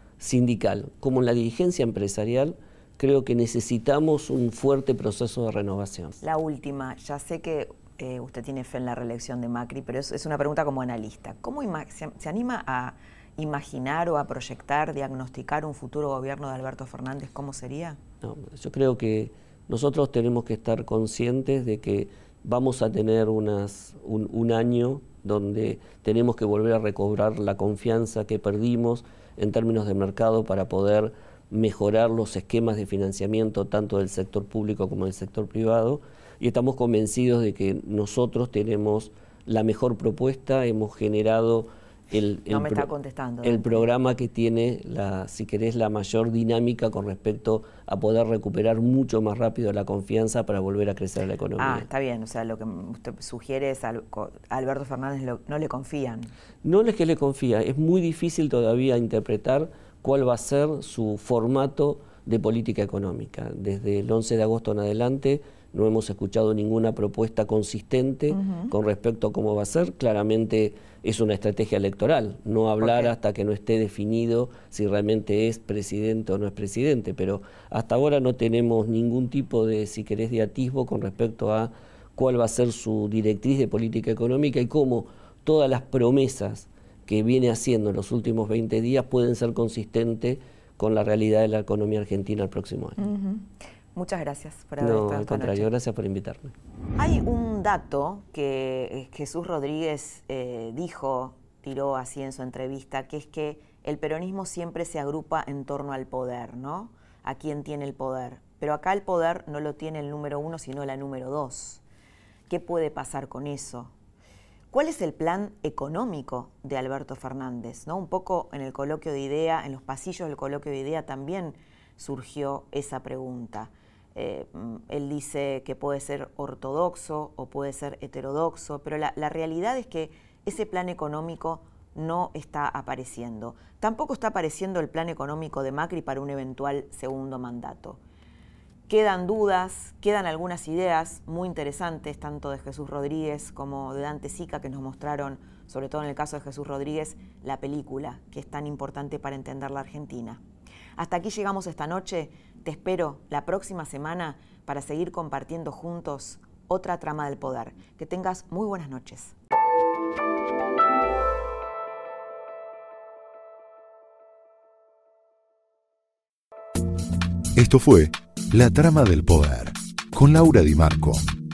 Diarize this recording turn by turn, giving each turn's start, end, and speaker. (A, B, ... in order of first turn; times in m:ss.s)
0:00.2-0:06.2 A
0:06.2-0:18.0 B
0:18.2-0:42.9 A
0:42.5-0:43.9 B
0:43.4-0:51.8 A
0:51.6-0:56.3 B
0:56.6-1:33.0 A
1:08.3-1:08.7 B
1:12.8-1:13.1 B
1:33.0-1:35.7 B
1:34.8-1:36.5 A
1:37.0-1:51.8 B
1:52.5-1:53.9 B
1:54.7-2:18.0 B
2:18.9-2:30.4 B
2:31.0-2:39.3 B
2:47.5-2:51.3 C